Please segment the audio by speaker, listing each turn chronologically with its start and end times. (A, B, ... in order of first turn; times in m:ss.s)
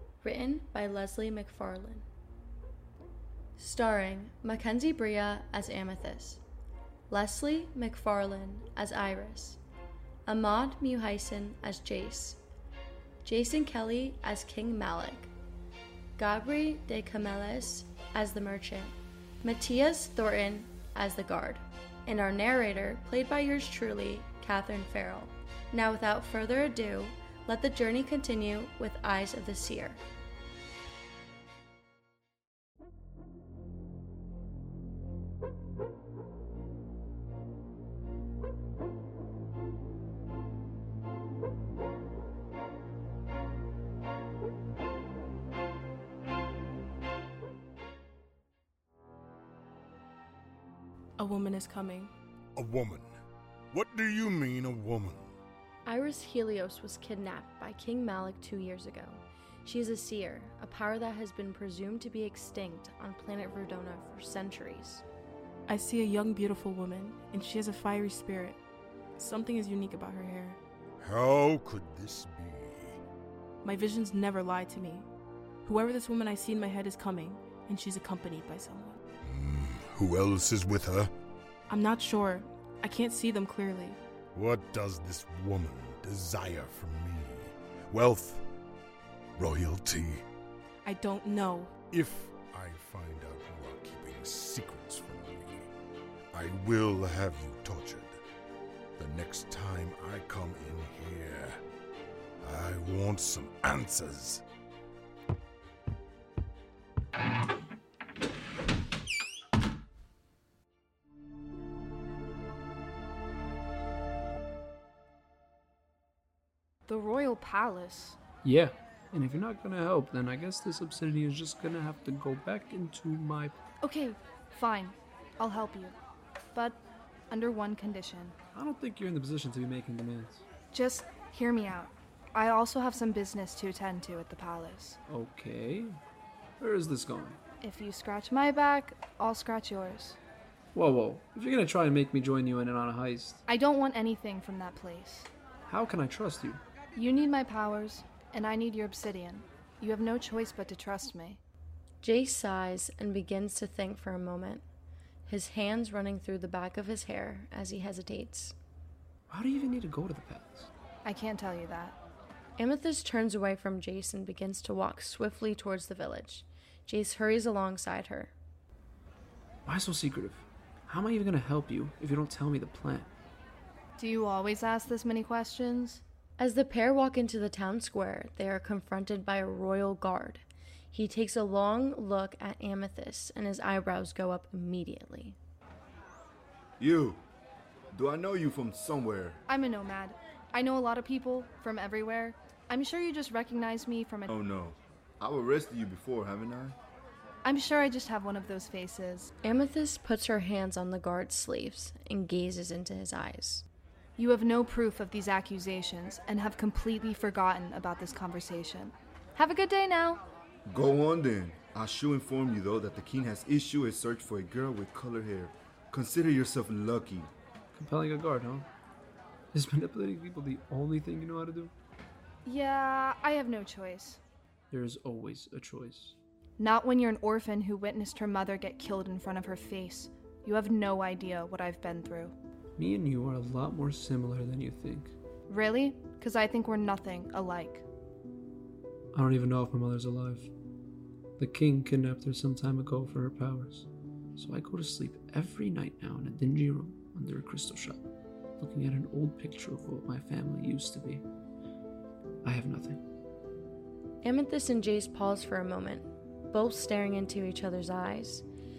0:00.2-0:02.0 A
0:03.6-0:06.4 A
0:07.1-0:09.6 A
0:10.2-0:12.4 A
0:13.2-0:15.3 A
0:16.2-0:30.0 A
0:51.2-0:52.1 B
0:52.6-0:53.2 C
0:53.7-0:55.4 C
0:55.8-1:05.0 A
1:05.7-1:08.6 B
1:09.2-1:10.6 B
1:11.0-1:13.0 C
1:13.6-1:15.1 B
1:15.6-1:19.0 B
1:19.2-1:21.1 C
1:21.7-1:24.0 B
1:24.3-1:28.4 C
1:29.4-1:30.2 C
1:30.8-1:31.7 B
1:31.9-1:35.7 C
1:36.3-1:38.2 C
1:39.0-1:41.6 C
1:42.4-1:44.4 C
1:56.9-1:58.2 D
1:58.4-2:03.5 E
2:03.8-2:05.9 D
2:06.5-2:08.4 D
2:08.5-2:10.4 E
2:10.7-2:15.0 D
2:15.1-2:16.0 E
2:16.6-2:17.4 E
2:17.6-2:20.2 D
2:20.7-2:23.4 E
2:23.5-2:25.3 D
2:25.6-2:26.6 E
2:26.9-2:31.4 D
2:32.0-2:34.6 A
2:35.2-2:38.5 A
2:39.3-2:40.7 E
2:41.0-2:42.0 D
2:42.6-2:48.3 A
2:49.6-2:53.1 E
2:54.0-2:56.0 D
2:56.4-3:05.4 A
3:06.8-3:07.2 F
3:07.9-3:09.4 F
3:09.5-3:14.3 D
3:14.3-3:16.8 F
3:17.4-3:19.3 D
3:19.4-3:23.6 A
3:24.2-3:30.2 D
3:30.7-3:37.3 F
3:37.7-3:38.7 E
3:39.5-3:41.7 E
3:42.4-3:44.2 D
3:44.7-3:46.2 E
3:46.6-3:52.3 D
3:52.8-3:55.1 E
3:55.5-3:57.8 D
3:59.1-4:00.5 E
4:01.4-4:08.1 E
4:08.6-4:11.2 E
4:12.4-4:13.0 E
4:14.2-4:18.4 A